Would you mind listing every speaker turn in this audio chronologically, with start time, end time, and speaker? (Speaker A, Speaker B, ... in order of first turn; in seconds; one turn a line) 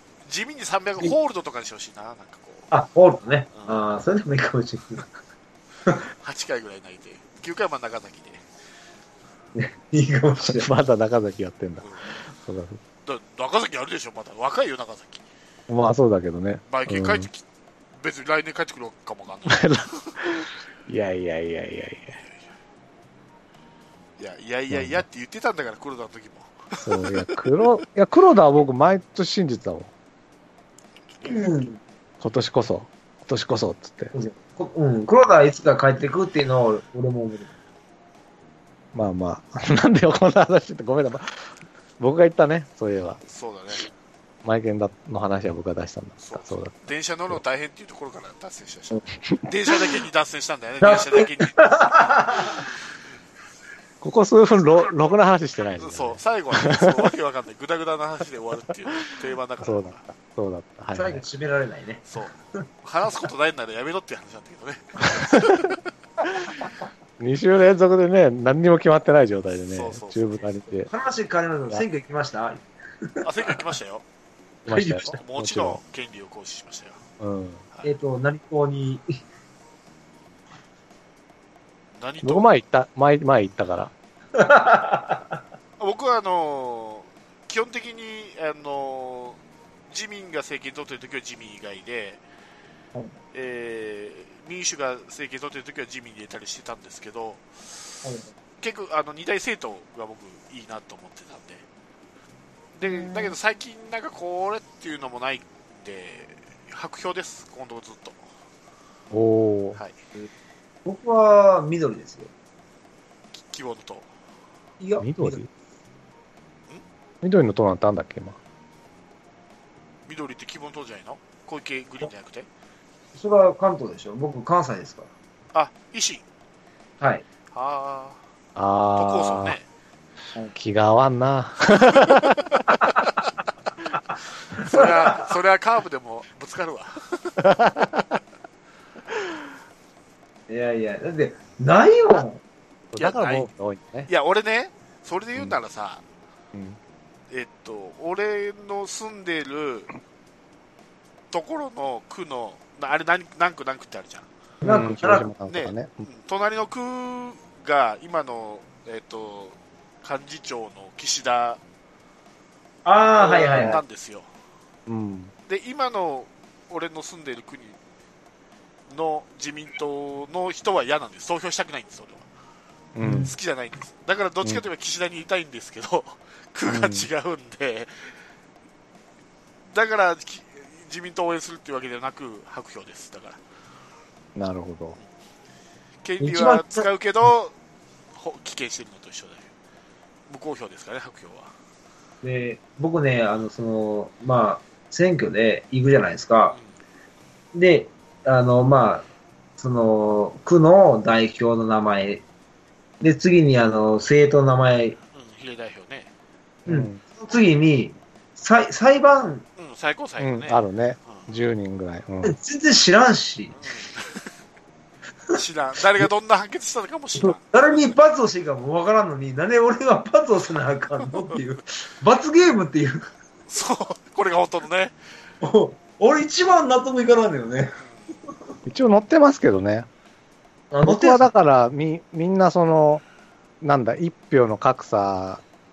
Speaker A: 0.3-2.7
Speaker B: 2.7-5.1
Speaker A: 3.5-3.8
Speaker A: 6.2-8.4
Speaker B: 9.6-10.7
Speaker C: 10.4-12.8
Speaker A: 11.8-12.1
Speaker A: 13.1-15.2
Speaker C: 15.7-17.3
Speaker A: 16.7-17.4
Speaker A: 18.0-20.1
Speaker C: 19.5-22.2
Speaker A: 24.2-27.7
Speaker C: 24.7-25.1
Speaker C: 26.8-29.9
Speaker A: 31.1-31.6
Speaker B: 31.3-31.8
Speaker C: 32.2-34.1
Speaker B: 34.1-37.5
Speaker C: 38.9-43.2
Speaker A: 43.3-43.9
Speaker C: 44.4-47.4
Speaker A: 46.2-51.6
Speaker B: 50.8-52.7
Speaker C: 54.0-57.1
Speaker A: 55.8-60.0
Speaker C: 59.6-61.2
Speaker B: 61.0-62.0
Speaker A: 62.1-65.8
Speaker C: 65.2-65.7
Speaker C: 67.2-70.9
Speaker A: 69.7-70.5
Speaker B: 70.9-73.5
Speaker A: 73.2-74.0
Speaker C: 74.7-75.8
Speaker B: 74.7-75.1
Speaker A: 74.8-77.0
Speaker C: 77.2-77.6
Speaker B: 77.8-79.2
Speaker A: 82.0-82.5
Speaker C: 82.2-83.9
Speaker B: 84.3-85.2
Speaker A: 85.8-92.2
Speaker A: 93.3-98.0
Speaker A: 98.6-101.7
Speaker A: 102.8-108.2
Speaker B: 102.8-103.3
Speaker C: 109.1-109.8
Speaker B: 110.8-112.3
Speaker A: 113.3-114.1
Speaker B: 114.8-115.4
Speaker C: 115.0-115.5
Speaker C: 117.2-118.4
Speaker A: 120.1-122.5
Speaker B: 123.1-125.1
Speaker A: 125.5-126.2
Speaker A: 127.5-128.2
Speaker C: 128.6-129.6
Speaker A: 129.0-129.7
Speaker C: 130.5-132.4
Speaker A: 132.0-132.9
Speaker A: 134.5-137.4
Speaker B: 134.6-135.3
Speaker C: 137.4-138.1
Speaker B: 140.5-142.4
Speaker C: 142.9-144.1
Speaker A: 143.0-143.5
Speaker A: 144.1-146.0
Speaker C: 146.5-146.8
Speaker A: 147.3-149.9
Speaker A: 151.3-154.3
Speaker B: 154.6-155.3
Speaker C: 154.6-156.1
Speaker A: 155.5-161.6
Speaker B: 162.8-163.8
Speaker A: 163.2-164.3
Speaker C: 164.9-165.3
Speaker A: 165.5-167.8
Speaker A: 168.9-172.3
Speaker C: 172.9-173.3
Speaker B: 173.0-173.3
Speaker A: 173.3-178.1
Speaker C: 176.7-177.1
Speaker A: 179.7-183.4
Speaker C: 184.4-185.0
Speaker A: 186.0-187.5
Speaker B: 186.2-186.9
Speaker A: 188.1-189.5
Speaker A: 190.3-191.5
Speaker B: 192.2-196.6
Speaker B: 197.5-199.1
Speaker B: 199.6-202.2
Speaker B: 203.0-205.0
Speaker A: 205.1-206.1
Speaker C: 206.7-207.0
Speaker B: 206.7-209.4
Speaker A: 209.6-211.3
Speaker C: 210.2-212.4
Speaker B: 212.2-213.6
Speaker A: 213.6-214.3
Speaker A: 215.3-217.4
Speaker B: 217.2-223.1
Speaker A: 223.5-224.9
Speaker B: 225.4-227.8
Speaker A: 227.8-228.1
Speaker C: 228.7-229.9
Speaker B: 230.7-231.3
Speaker C: 230.8-233.0
Speaker C: 233.6-235.4